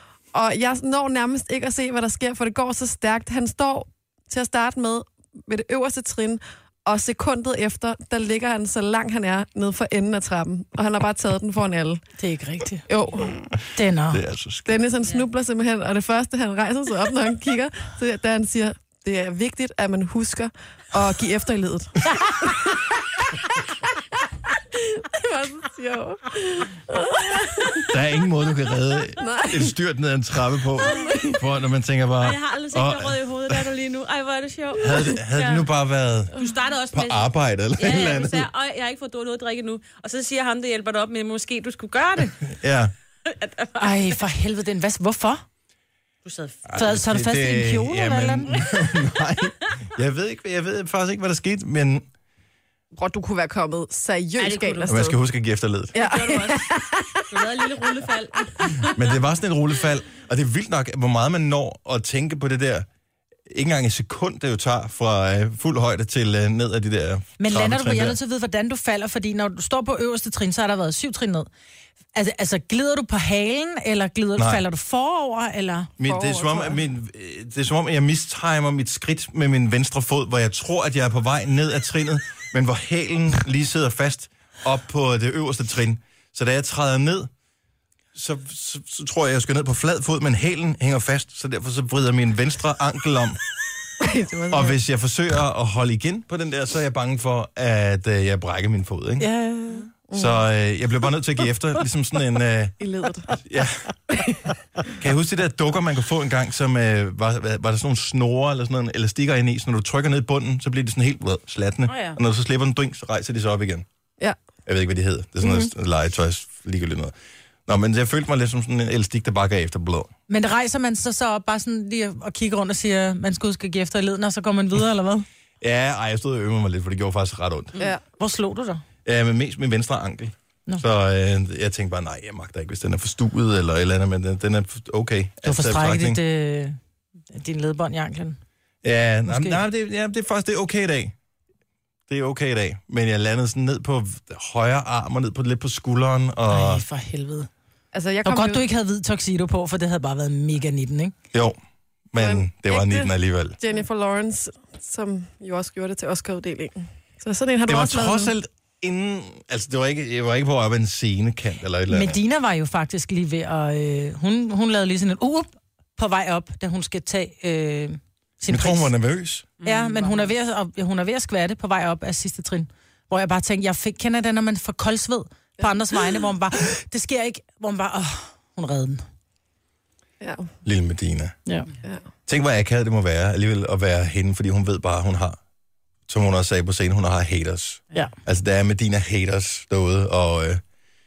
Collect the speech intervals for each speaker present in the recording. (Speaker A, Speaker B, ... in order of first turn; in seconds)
Speaker A: 0.3-12.0, 12.9-13.4, 14.7-23.2, 24.8-27.9, 29.2-29.7, 30.8-31.4, 52.9-55.2, 55.9-57.1, 76.0-76.8, 94.0-94.8, 100.1-100.4, 102.8-103.4, 147.9-148.6, 152.2-158.3, 180.2-180.5
Speaker B: 12.2-12.9, 13.7-14.2, 43.8-45.4, 46.7-48.5, 67.4-71.5, 72.1-75.9, 99.2-99.8, 115.4-115.7, 120.3-125.2, 128.2-128.8, 135.4-136.8, 137.3-138.4, 139.3-139.6, 146.5-147.5, 148.2-151.1, 161.9-168.9, 169.6-179.0
Speaker C: 14.1-14.8, 27.9-33.6, 34.8-36.3, 36.9-38.5, 42.5-42.9, 46.6-52.0, 54.9-55.9, 58.9-62.9, 63.5-68.2, 74.3-74.6, 76.0-87.3, 88.1-93.4, 94.5-99.3, 100.1-102.8, 103.4-103.9, 105.0-113.8, 114.7-117.1, 117.7-120.1, 125.6-127.8, 129.0-136.2, 138.8-141.1, 142.1-146.8, 152.1-153.6, 157.7-162.2, 168.5-169.5, 180.6-181.3, 182.3-185.4, 186.1-190.6
Speaker D: 30.9-31.1, 32.2-35.7, 36.3-42.5, 43.2-44.1, 46.2-46.8, 54.4-55.0, 55.9-59.0, 111.8-112.2, 169.6-170.3